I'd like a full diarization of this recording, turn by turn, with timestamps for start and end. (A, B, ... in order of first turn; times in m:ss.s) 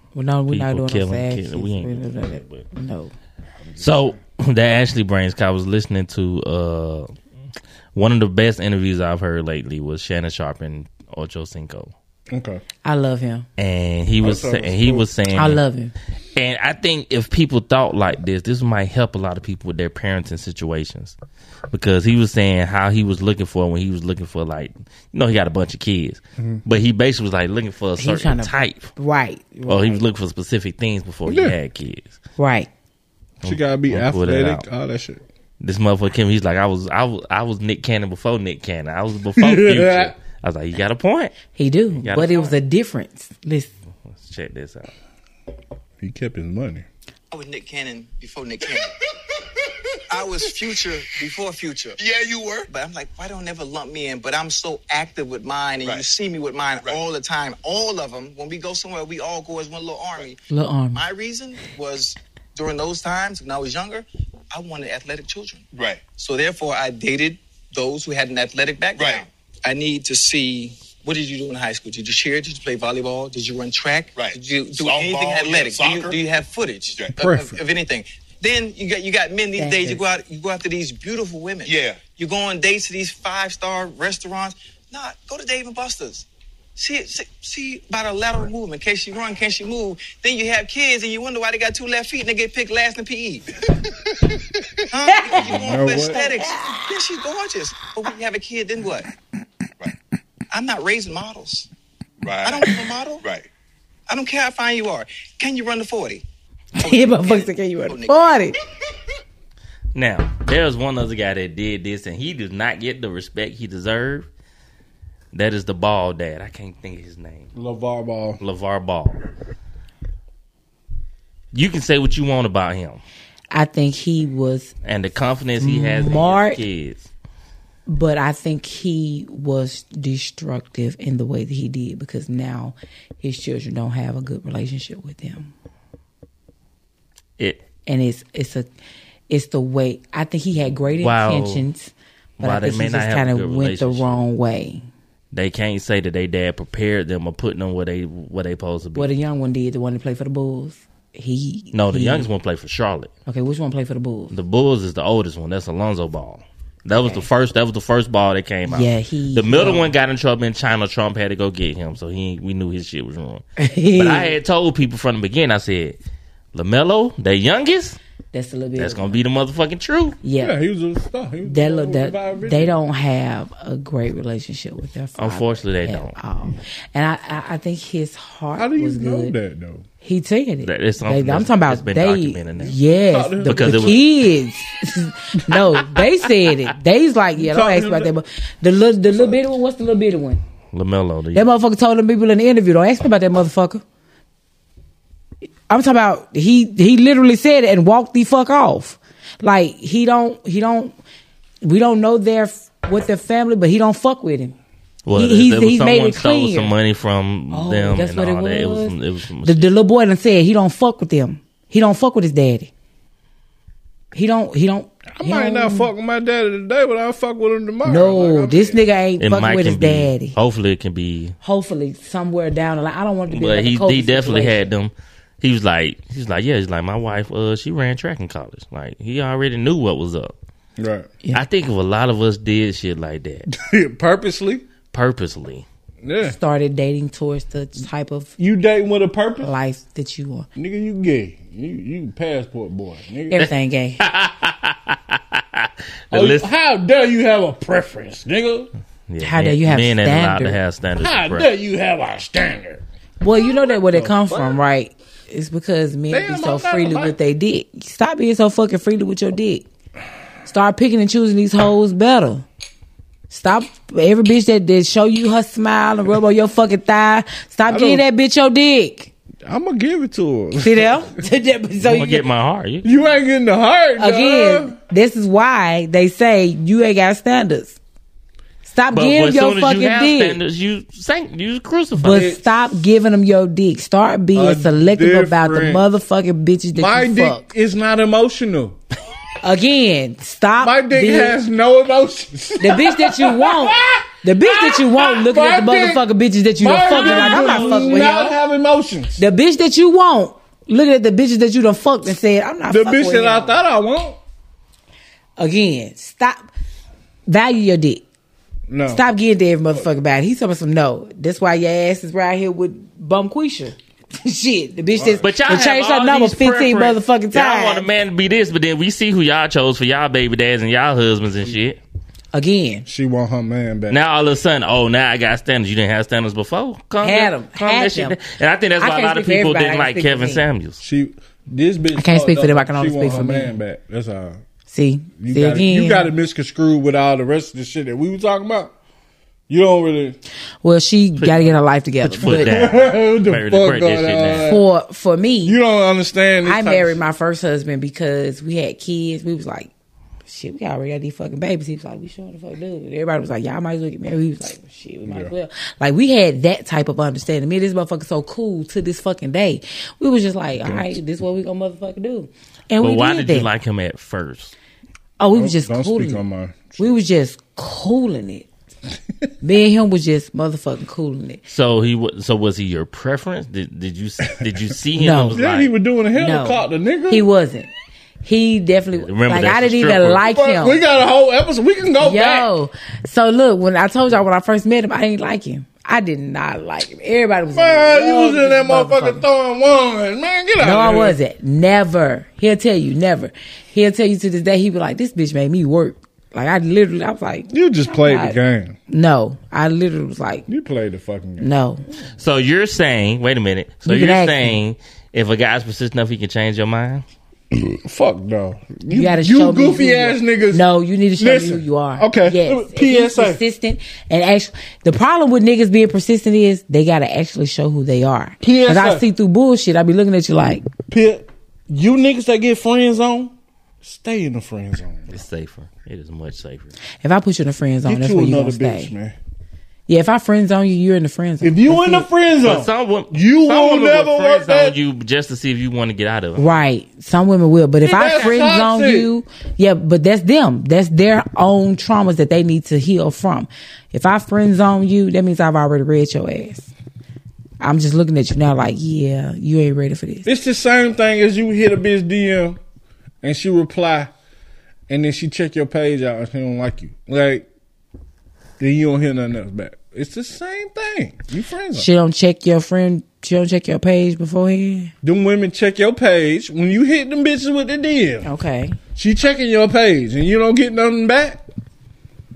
0:00.1-0:03.1 A
0:00.5-0:02.6 B
0:03.7-0:04.1 C
0:03.8-0:07.1 B
0:07.9-0:11.9 B
0:12.3-0:12.6 C
0:12.8-0:13.4 A
0:13.6-0:15.6 B
0:14.2-0:15.1 C
0:15.3-0:15.9 A
0:16.4-0:21.1 B
0:21.7-0:28.9 B
0:28.0-0:30.0 A
0:29.7-0:32.1 B
0:31.2-0:31.5 C
0:32.4-0:32.7 A
0:33.4-0:34.6 B
0:33.4-0:35.2 C
0:35.6-0:41.4 B
0:39.4-0:40.1 C
0:41.6-0:43.7 A
0:42.0-0:42.6 B
0:44.1-0:44.9 B
0:46.0-0:46.8 C
0:47.3-0:48.9 D
0:50.1-0:52.0 D
0:52.0-0:52.7 E
0:52.7-1:00.4 D
1:00.5-1:01.0 A
1:00.9-1:33.5 D
1:05.7-1:06.0 E
1:09.0-1:09.2 E
1:14.1-1:16.2 E
1:17.2-1:17.6 C
1:19.6-1:20.0 A
1:21.6-1:22.0 E
1:34.9-1:39.1 D
1:35.1-1:36.8 A
1:35.4-1:36.2 C
1:40.5-1:41.7 D
1:42.2-1:43.5 E
1:42.4-1:43.2 D
1:44.1-1:46.2 D
1:46.8-1:48.5 A
1:46.8-1:48.5 D
1:49.9-1:54.3 B
1:55.3-1:57.5 B
1:57.5-1:58.4 C
1:58.4-1:59.2 B
2:01.5-2:03.0 B
2:03.5-2:04.7 A
2:04.8-2:07.1 B
2:05.6-2:06.6 A
2:07.9-2:15.5 A
2:17.8-2:18.7 A
2:19.3-2:24.9 A
2:21.0-2:21.6 B
2:22.4-2:24.2 B
2:25.3-2:29.1 B
2:29.0-2:32.3 A
2:31.7-2:33.1 B
2:33.3-2:34.3 A
2:34.3-2:43.4 B
2:37.0-2:37.2 A
2:38.6-2:39.9 A
2:43.6-2:44.3 A
2:44.0-2:46.0 B
2:46.5-2:48.0 B
2:48.3-2:49.2 A
2:48.8-2:50.2 B
2:50.2-2:50.6 A
2:50.4-2:52.8 C
2:51.4-2:59.4 A
2:55.2-2:56.1 B
2:58.6-2:59.8 C
3:00.0-3:10.4 A
3:00.6-3:02.8 B
3:03.1-3:04.0 C
3:03.4-3:04.0 B
3:07.4-3:08.1 C
3:09.1-3:09.4 C
3:10.7-3:11.5 B
3:11.3-3:13.8 A
3:15.7-3:21.0 A
3:21.6-3:24.6 A
3:25.0-3:29.7 B
3:25.1-3:26.7 A
3:27.5-3:28.9 A
3:29.4-3:32.7 A
3:34.1-3:35.9 A
3:35.1-3:38.8 C
3:37.8-3:40.3 A
3:39.2-3:41.4 B
3:41.4-3:44.7 A
3:43.3-3:50.3 B
3:50.8-3:51.1 C
3:51.3-3:53.5 B
3:53.5-3:54.6 C
3:54.9-3:55.6 B
3:56.0-3:56.4 C
3:56.2-3:58.3 A
3:58.4-3:59.5 C
3:59.4-4:00.5 A
4:00.6-4:03.5 C
4:03.3-4:04.0 A
4:04.0-4:06.5 B
4:06.1-4:08.7 C
4:09.1-4:11.5 B
4:09.2-4:10.6 A
4:11.0-4:12.8 C
4:13.2-4:19.6 A
4:13.4-4:14.6 C
4:16.1-4:17.2 C
4:20.4-4:22.4 A
4:23.3-4:29.1 A
4:27.7-4:28.0 C
4:29.4-4:31.1 C
4:30.6-4:32.2 A
4:31.8-4:32.9 B
4:32.8-4:34.7 C
4:34.0-4:37.8 A
4:38.6-4:40.4 A
4:38.9-4:42.3 B
4:42.0-4:47.4 A
4:42.1-4:42.4 C
4:44.3-4:45.8 C
4:46.7-4:48.8 C
4:49.4-4:51.4 A
4:50.6-4:56.0 C
4:52.6-4:58.3 A
4:56.6-4:59.2 C
4:56.9-4:58.2 B
4:59.2-5:03.6 A
5:02.7-5:04.2 C
5:05.4-5:06.4 A
5:07.3-5:08.0 A
5:08.7-5:09.0 C
5:08.9-5:17.9 A
5:14.9-5:15.2 C
5:15.2-5:21.8 B
5:22.3-5:22.8 A
5:22.8-5:24.0 C
5:23.9-5:30.8 B
5:27.0-5:28.2 A
5:28.8-5:30.4 A
5:30.8-5:34.4 C
5:31.9-5:33.5 A
5:34.7-5:36.1 A
5:35.2-5:38.7 C
5:39.5-5:40.2 C
5:40.6-5:42.5 A
5:41.2-5:44.5 B
5:42.2-5:44.6 C
5:44.5-5:45.6 A
5:45.4-5:47.0 C
5:46.4-5:49.7 A
5:50.3-6:03.5 A
5:55.0-5:55.3 C
6:00.6-6:01.0 C
6:02.8-6:04.5 B
6:05.2-6:06.2 A
6:05.3-6:06.9 C
6:06.8-6:08.5 A
6:09.4-6:11.4 A
6:11.5-6:15.7 B
6:15.0-6:15.4 A
6:15.3-6:17.2 C
6:16.1-6:17.7 A
6:18.2-6:20.8 A
6:19.0-6:20.2 B
6:20.2-6:22.5 C
6:22.0-6:29.2 A
6:27.5-6:31.2 C
6:30.6-6:40.4 A
6:37.5-6:38.8 C
6:40.5-6:41.5 C
6:41.4-6:41.8 A
6:42.2-6:47.0 B
6:43.8-6:44.6 A
6:47.5-6:50.6 C
6:48.9-7:00.6 A
6:51.2-6:53.4 C
6:58.4-6:59.0 C
7:00.9-7:05.1 C
7:05.1-7:06.7 B
7:07.0-7:08.9 A
7:07.8-7:09.2 C
7:09.9-7:12.1 A
7:11.4-7:14.8 C
7:12.4-7:16.6 B
7:16.4-7:26.7 A
7:17.8-7:19.1 C
7:27.6-7:30.3 A
7:30.2-7:32.6 C
7:33.2-7:34.1 C
7:34.9-7:37.4 C
7:38.6-7:41.9 C
7:41.7-7:44.9 A
7:45.0-7:48.3 C
7:48.2-7:48.8 A
7:49.0-7:51.4 C